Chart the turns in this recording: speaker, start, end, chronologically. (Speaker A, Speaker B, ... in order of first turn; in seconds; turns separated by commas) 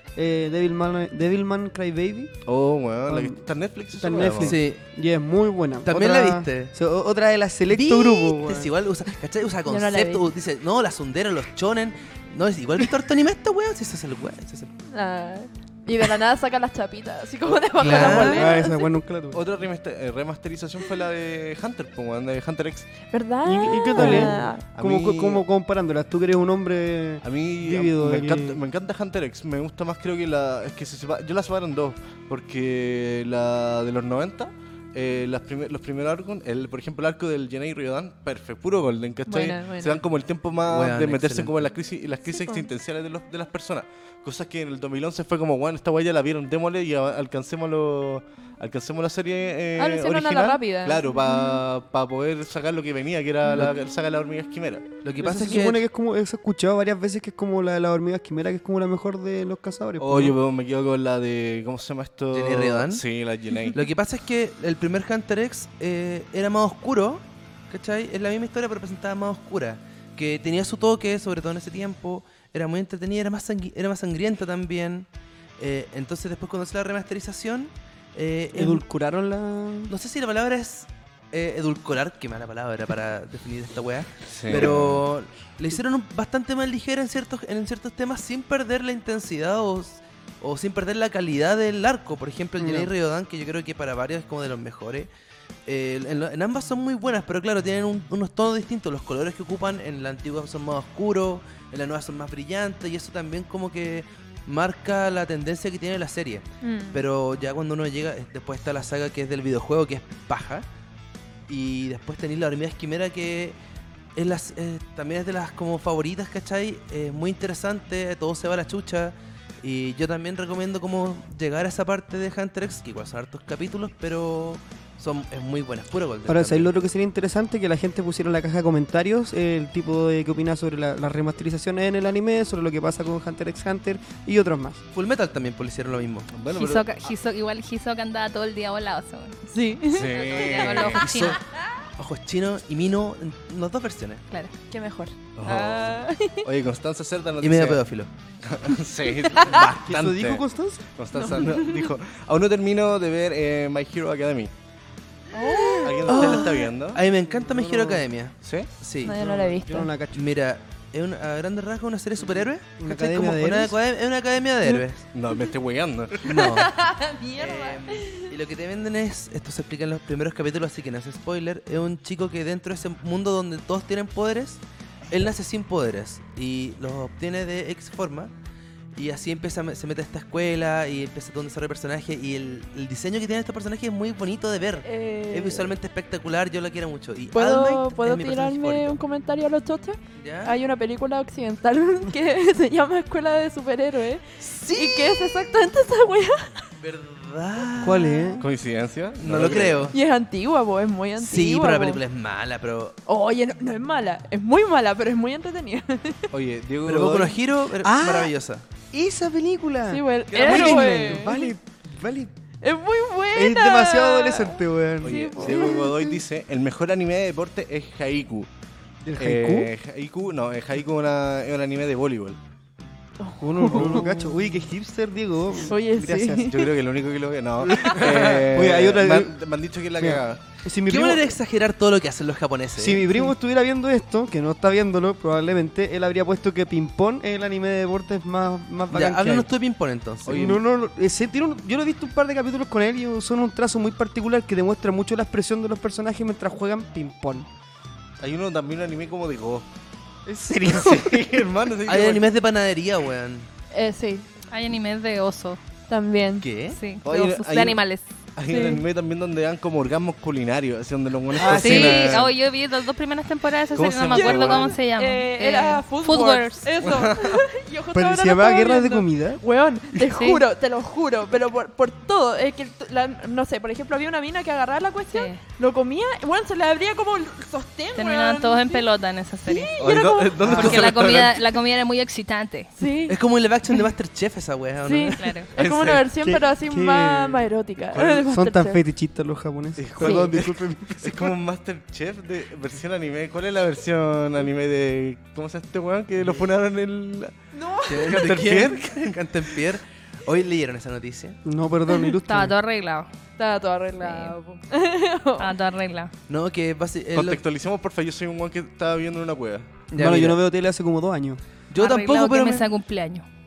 Speaker A: 0.1-2.3, Speaker B: 2.5-4.6, Speaker A: 3.1-3.4, Speaker A: 4.0-8.7, Speaker C: 4.4-4.8, Speaker C: 5.8-6.7, Speaker C: 7.7-14.7, Speaker D: 9.7-10.2, Speaker D: 14.9-18.8, Speaker C: 17.8-18.5, Speaker A: 17.9-19.4, Speaker B: 19.3-22.9, Speaker D: 23.1-24.6, Speaker A: 23.4-28.6, Speaker B: 23.9-25.4, Speaker B: 27.2-54.9, Speaker D: 39.2-40.0, Speaker C: 40.7-41.6, Speaker D: 42.4-42.7, Speaker D: 49.8-51.6, Speaker C: 55.0-55.8, Speaker A: 55.2-60.3, Speaker B: 60.0-63.8, Speaker C: 62.3-63.0, Speaker C: 63.7-75.1, Speaker C: 75.6-78.8, Speaker A: 78.5-79.9, Speaker C: 79.9-95.1, Speaker B: 84.2-85.0, Speaker A: 92.6-92.9, Speaker C: 95.7-110.7, Speaker D: 106.6-107.0, Speaker C: 111.5-113.6, Speaker C: 114.2-126.7, Speaker A: 126.3-134.8, Speaker C: 134.9-136.3, Speaker B: 136.3-136.8, Speaker E: 136.5-139.4, Speaker D: 139.4-140.9, Speaker B: 139.8-141.1, Speaker E: 140.1-141.4, Speaker C: 140.8-141.4, Speaker C: 142.0-144.2, Speaker D: 144.7-146.5, Speaker B: 145.4-147.8, Speaker C: 147.4-148.1, Speaker B: 148.4-154.5, Speaker D: 149.3-149.7, Speaker A: 149.7-150.8, Speaker D: 151.1-151.9, Speaker D: 155.3-156.7, Speaker B: 155.6-157.0, Speaker C: 156.1-159.2, Speaker A: 157.3-158.1, Speaker B: 158.4-158.7, Speaker D: 159.0-159.9, Speaker A: 159.1-160.2, Speaker C: 160.1-165.1, Speaker A: 162.8-163.8, Speaker B: 165.1-166.4, Speaker C: 166.2-166.7, Speaker D: 166.2-168.3, Speaker C: 167.4-178.3, Speaker C: 178.9-189.0, Speaker D: 184.8-185.7, Speaker D: 187.3-196.7, Speaker C: 190.2-190.6, Speaker C: 194.4-195.3, Speaker C: 196.8-198.3, Speaker A: 197.8-198.4, Speaker D: 198.0-198.3, Speaker B: 198.4-199.9, Speaker C: 199.2-199.9, Speaker D: 199.9-202.0, Speaker C: 201.2-203.0, Speaker D: 203.1-206.3, Speaker B: 206.3-207.4, Speaker C: 206.8-208.6, Speaker A: 207.8-208.3, Speaker A: 208.9-212.3, Speaker D: 209.9-211.5, Speaker C: 210.3-211.2, Speaker D: 212.6-216.1, Speaker A: 213.3-215.2, Speaker B: 215.0-218.5, Speaker A: 219.0-219.7, Speaker B: 219.2-222.4, Speaker D: 223.2-224.5, Speaker A: 223.4-226.5, Speaker D: 225.6-226.7, Speaker B: 226.5-230.4, Speaker A: 227.6-229.3, Speaker A: 230.0-231.3, Speaker C: 230.8-233.1, Speaker A: 232.8-239.5, Speaker C: 238.9-240.5, Speaker A: 240.2-247.5, Speaker B: 240.3-240.6, Speaker B: 248.2-249.7, Speaker B: 250.3-252.3, Speaker C: 251.8-253.5, Speaker D: 253.7-254.3, Speaker E: 254.5-255.6, Speaker D: 255.9-256.4, Speaker C: 256.4-256.8, Speaker E: 256.7-258.0, Speaker B: 257.0-257.8, Speaker B: 258.4-262.3, Speaker D: 258.5-258.8, Speaker A: 261.3-262.2, Speaker E: 261.4-266.7, Speaker B: 263.7-264.7, Speaker D: 264.1-278.8, Speaker B: 266.8-267.4, Speaker A: 267.9-269.4, Speaker E: 270.1-270.4, Speaker E: 275.1-275.4, Speaker E: 277.9-279.7, Speaker D: 279.4-280.7, Speaker B: 279.8-281.4, Speaker C: 280.4-280.9, Speaker E: 280.5-282.7, Speaker D: 282.8-283.2, Speaker C: 283.1-285.4, Speaker D: 284.8-288.8, Speaker E: 285.2-285.5, Speaker B: 285.6-286.1, Speaker A: 286.2-287.5, Speaker B: 287.9-288.2, Speaker A: 288.2-291.3, Speaker B: 289.8-297.3, Speaker D: 290.0-290.3, Speaker D: 297.5-298.2, Speaker C: 297.9-301.4, Speaker B: 297.9-299.6, Speaker A: 301.4-302.5, Speaker E: 302.2-303.1, Speaker D: 303.4-305.5, Speaker E: 304.0-304.3, Speaker E: 305.4-306.1, Speaker C: 306.3-307.4, Speaker B: 307.1-309.8, Speaker C: 309.9-310.4, Speaker A: 309.9-311.4, Speaker C: 311.7-312.6, Speaker E: 311.8-313.2